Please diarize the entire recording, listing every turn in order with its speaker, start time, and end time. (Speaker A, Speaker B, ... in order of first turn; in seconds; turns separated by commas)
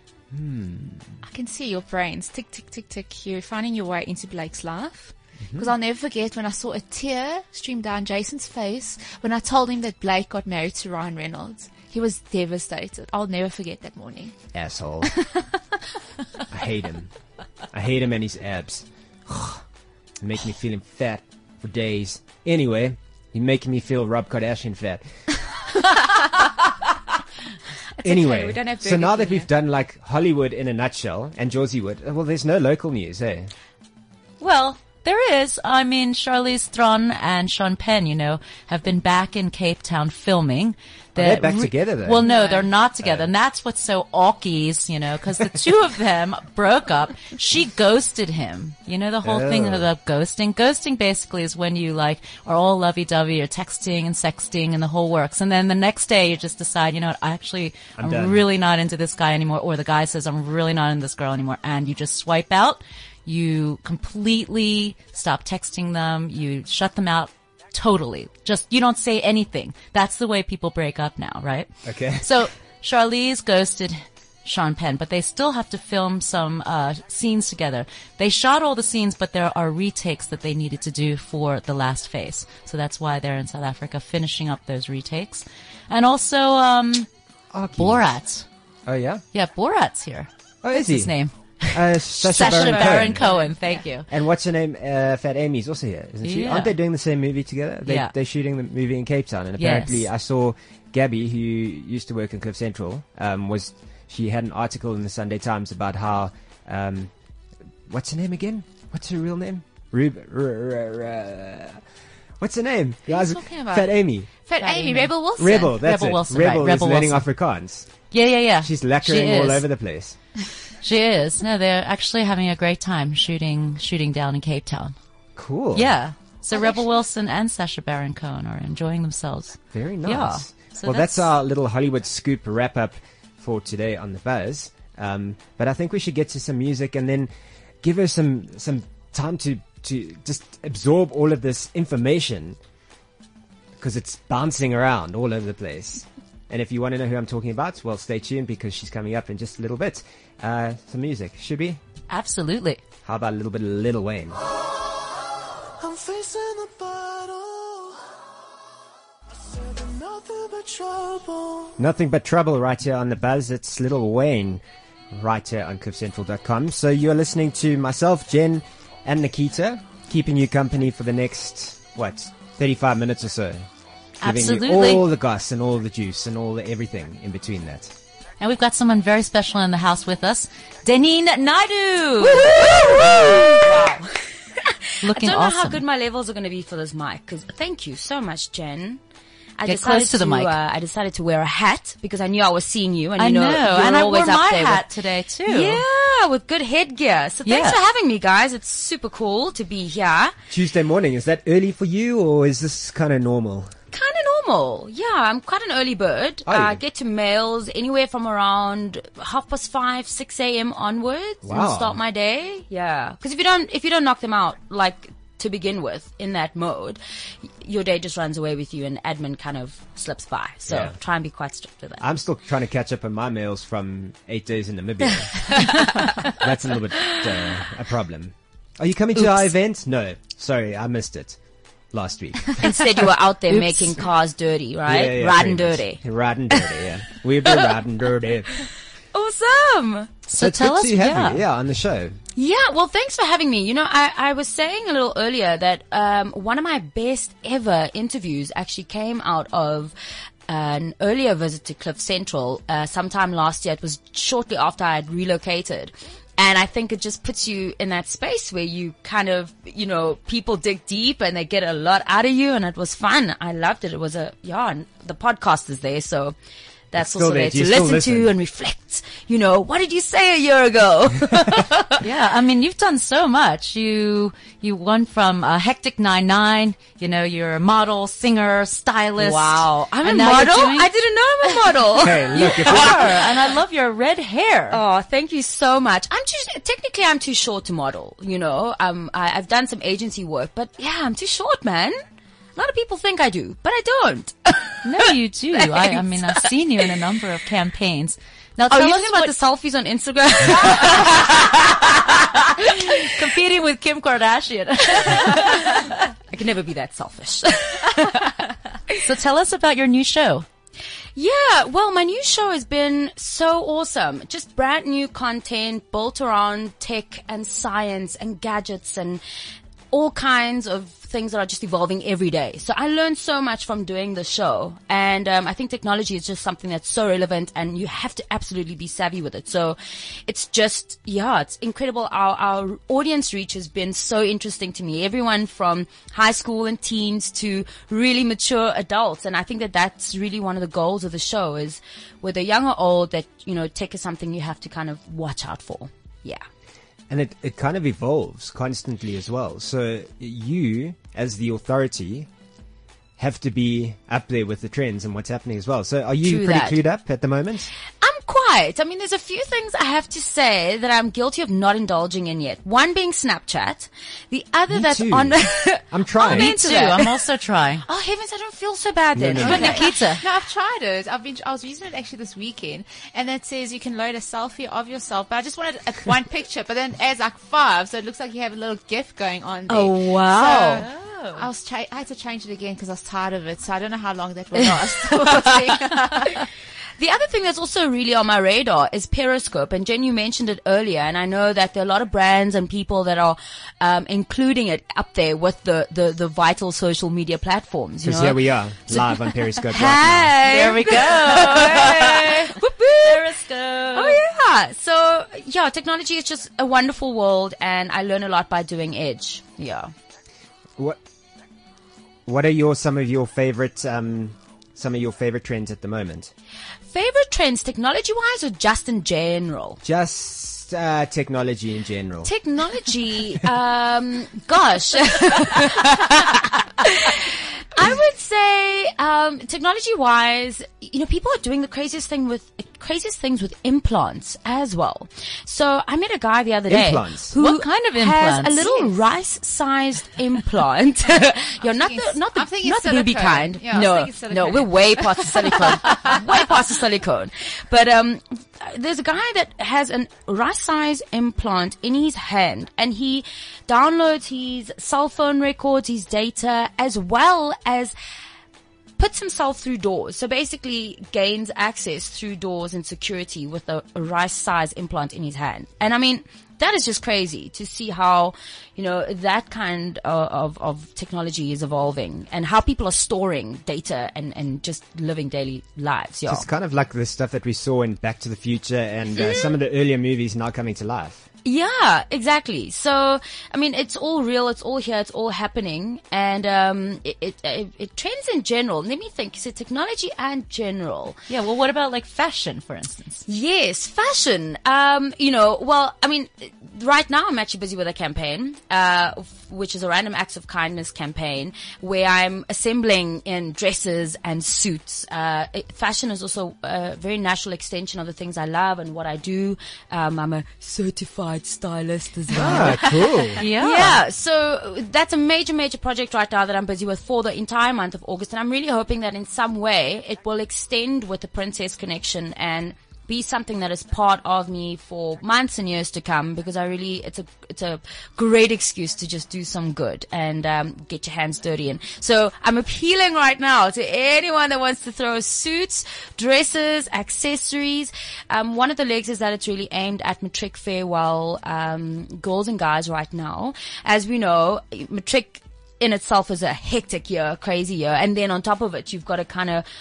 Speaker A: 0.3-1.2, Speaker B: 1.2-14.3, Speaker A: 5.5-5.7, Speaker A: 14.5-15.1, Speaker B: 15.0-15.4, Speaker A: 16.5-17.1, Speaker A: 17.7-19.4, Speaker A: 20.2-25.0, Speaker B: 25.9-26.4, Speaker B: 28.0-29.5, Speaker A: 28.0-33.5, Speaker C: 34.4-87.1, Speaker A: 41.1-42.2, Speaker B: 42.2-42.7, Speaker A: 43.0-43.3, Speaker A: 49.2-49.9, Speaker A: 58.0-58.5, Speaker A: 71.8-72.4, Speaker A: 87.5-88.1, Speaker C: 87.8-88.5, Speaker A: 88.8-89.2, Speaker C: 89.3-94.1, Speaker A: 90.6-91.1, Speaker A: 91.7-93.3, Speaker B: 92.3-93.8, Speaker A: 94.1-107.1, Speaker C: 96.2-96.8, Speaker C: 97.8-98.1, Speaker C: 99.6-100.1, Speaker A: 107.9-111.8, Speaker A: 112.4-114.3, Speaker B: 113.1-115.8, Speaker C: 114.6-117.3, Speaker A: 115.3-117.9, Speaker C: 118.1-119.7, Speaker A: 118.6-120.2, Speaker C: 120.8-124.9, Speaker A: 125.3-125.9, Speaker C: 125.7-131.3, Speaker B: 126.5-126.9, Speaker A: 129.7-137.3, Speaker A: 137.8-142.6, Speaker A: 143.8-151.8, Speaker C: 152.1-152.8, Speaker A: 153.0-154.4, Speaker D: 155.8-158.0, Speaker D: 159.4-161.8, Speaker A: 161.8-173.7, Speaker C: 174.2-175.0, Speaker A: 174.2-177.9, Speaker C: 178.4-183.6, Speaker E: 182.1-189.0, Speaker C: 185.0-185.8, Speaker E: 189.6-194.8, Speaker C: 189.7-190.6, Speaker C: 193.2-195.8, Speaker E: 195.4-200.3, Speaker C: 197.4-197.8, Speaker A: 200.5-203.7, Speaker E: 203.9-217.0, Speaker A: 206.4-206.8, Speaker A: 211.4-212.0, Speaker E: 217.6-222.1, Speaker A: 220.7-220.9, Speaker A: 222.0-231.4, Speaker E: 225.1-226.3, Speaker E: 227.0-227.3, Speaker A: 231.9-233.0, Speaker E: 232.6-236.9, Speaker C: 233.5-234.0, Speaker A: 234.9-238.7, Speaker E: 237.4-237.8, Speaker E: 238.5-240.1, Speaker C: 240.3-241.4, Speaker A: 240.4-242.2, Speaker E: 242.3-249.9, Speaker E: 250.5-266.4, Speaker E: 266.9-272.0, Speaker A: 266.9-268.3, Speaker C: 272.0-280.9, Speaker E: 279.2-283.3, Speaker A: 282.0-283.1, Speaker C: 282.3-284.8, Speaker E: 284.7-292.0, Speaker E: 292.6-296.5, Speaker C: 294.8-299.3, Speaker E: 298.7-303.2, Speaker C: 302.6-306.0, Speaker E: 305.0-309.0, Speaker C: 309.0-310.4, Speaker E: 311.1-319.2, Speaker E: 319.9-346.4, Speaker A: 347.1-352.3, Speaker A: 353.2-357.7, Speaker E: 356.2-356.8, Speaker E: 358.0-367.2, Speaker A: 364.7-366.5, Speaker C: 366.2-367.8, Speaker E: 367.8-369.9, Speaker A: 369.1-369.7, Speaker B: 369.4-386.5, Speaker C: 369.4-370.2, Speaker E: 379.7-380.8, Speaker C: 380.4-381.5, Speaker E: 384.5-386.5, Speaker E: 387.0-403.3, Speaker A: 398.0-400.4, Speaker C: 400.4-404.2, Speaker E: 403.9-409.9, Speaker A: 412.2-416.3, Speaker E: 416.9-419.8, Speaker A: 419.8-422.3, Speaker E: 422.2-457.9, Speaker A: 436.7-437.3, Speaker C: 437.3-438.8, Speaker B: 441.7-446.4, Speaker E: 459.0-476.4, Speaker A: 476.3-481.2, Speaker E: 479.1-479.6, Speaker E: 481.4-491.2, Speaker C: 491.3-493.2, Speaker E: 493.3-549.6, Speaker A: 512.3-513.4, Speaker C: 512.4-514.0